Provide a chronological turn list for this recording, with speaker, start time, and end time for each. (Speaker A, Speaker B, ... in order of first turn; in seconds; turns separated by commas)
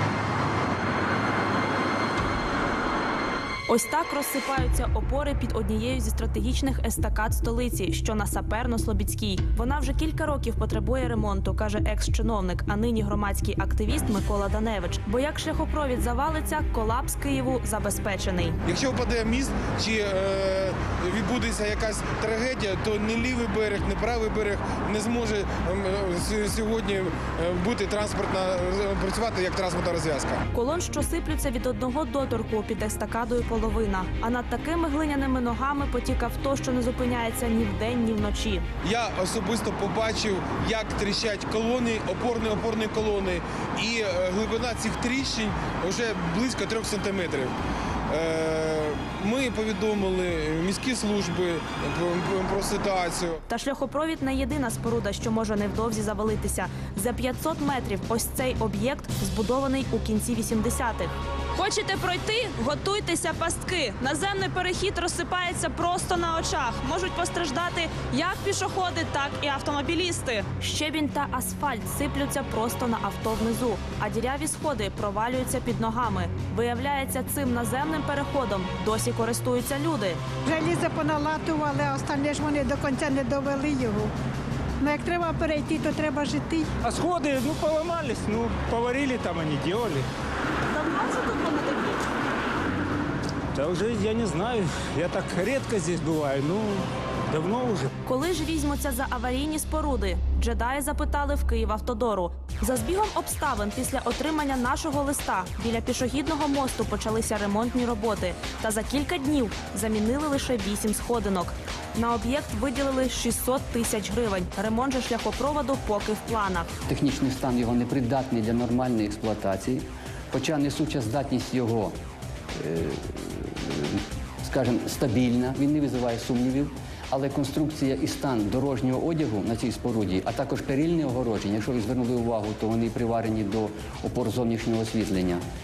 Speaker A: 3.7-18.6, Speaker B: 18.7-30.4, Speaker A: 30.5-38.7, Speaker B: 38.8-47.5, Speaker B: 48.1-53.4, Speaker A: 53.5-80.2, Speaker C: 80.5-84.1, Speaker C: 84.8-86.7, Speaker D: 86.8-90.1, Speaker A: 90.7-91.9, Speaker D: 93.5-97.9, Speaker A: 98.0-116.7, Speaker E: 116.9-122.0, Speaker E: 122.5-135.4